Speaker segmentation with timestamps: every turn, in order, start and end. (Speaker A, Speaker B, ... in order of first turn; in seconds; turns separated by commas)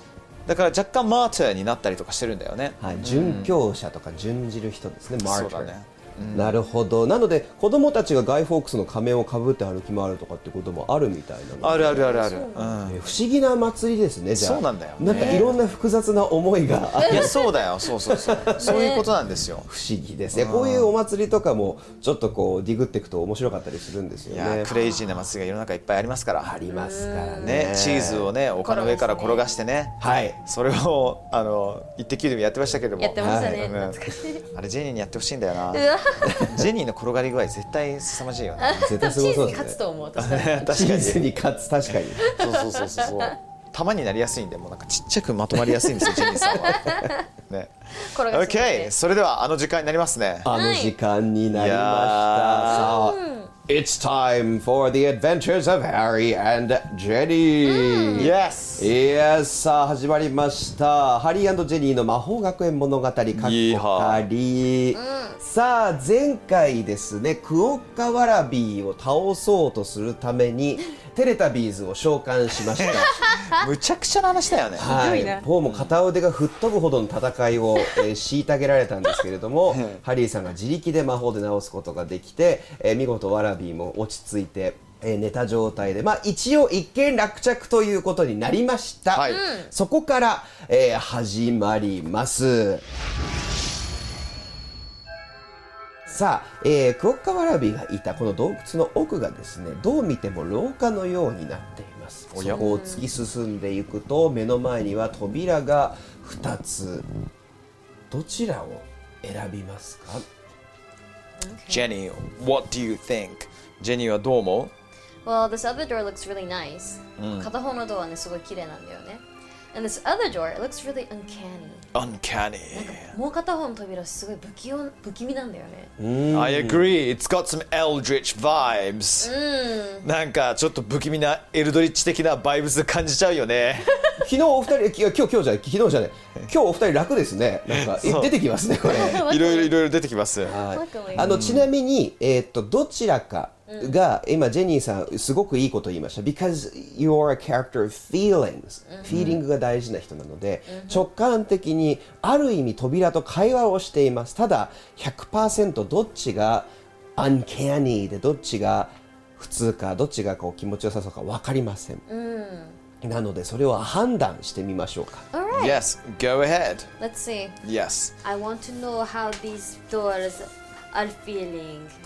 Speaker A: 0.5-3.5, Speaker B: 2.8-5.7, Speaker A: 5.2-6.6, Speaker B: 6.3-12.2, Speaker A: 11.6-13.1, Speaker C: 11.9-12.8, Speaker B: 12.8-17.4, Speaker A: 14.3-15.6, Speaker C: 15.1-15.4, Speaker C: 17.0-17.5, Speaker A: 17.0-19.7, Speaker B: 18.1-18.9, Speaker C: 18.6-19.1, Speaker B: 19.6-24.7, Speaker A: 20.3-20.9, Speaker A: 24.3-26.5, Speaker C: 24.6-25.2, Speaker B: 26.4-28.3, Speaker C: 26.7-27.6, Speaker A: 27.4-38.9, Speaker C: 28.6-29.4, Speaker B: 30.0-30.4, Speaker C: 33.0-34.4, Speaker B: 33.2-33.7, Speaker C: 35.7-36.4, Speaker B: 36.3-36.6, Speaker C: 38.6-40.6, Speaker B: 38.8-39.8, Speaker A: 40.1-41.2, Speaker B: 40.6-42.2, Speaker C: 42.2-43.3, Speaker A: 42.2-50.5, Speaker C: 46.0-47.2, Speaker C: 47.9-48.9, Speaker B: 50.4-73.1, Speaker C: 50.5-50.9, Speaker A: 51.5-53.0, Speaker C: 52.7-53.5, Speaker C: 57.6-58.3, Speaker A: 58.1-58.9, Speaker A: 63.3-64.2, Speaker C: 64.9-65.4, Speaker C: 72.9-73.7, Speaker A: 73.5-75.9, Speaker B: 74.7-92.8, Speaker C: 74.8-75.5, Speaker A: 79.7-80.0, Speaker A: 89.1-89.4, Speaker C: 89.2-89.7, Speaker B: 96.1-107.0, Speaker A: 102.3-102.6, Speaker C: 102.5-103.1, Speaker B: 108.1-110.2, Speaker C: 111.4-111.9, Speaker A: 111.7-114.7, Speaker C: 115.2-121.9, Speaker A: 117.2-117.5, Speaker A: 121.9-123.1, Speaker C: 122.7-125.9, Speaker B: 126.0-126.9, Speaker A: 126.3-129.3, Speaker C: 129.2-130.1, Speaker A: 130.0-133.9, Speaker C: 133.9-134.2, Speaker B: 134.2-139.3, Speaker A: 137.7-140.6, Speaker C: 138.8-139.8, Speaker B: 140.4-162.0, Speaker C: 140.6-141.3, Speaker A: 141.1-141.7, Speaker C: 143.7-144.0, Speaker C: 148.9-149.3, Speaker A: 149.1-149.4, Speaker C: 150.7-151.1, Speaker C: 162.1-162.8, Speaker B: 163.0-165.2, Speaker C: 165.3-165.8, Speaker A: 165.5-166.9, Speaker C: 167.0-167.6, Speaker A: 167.6-168.1, Speaker C: 168.2-171.9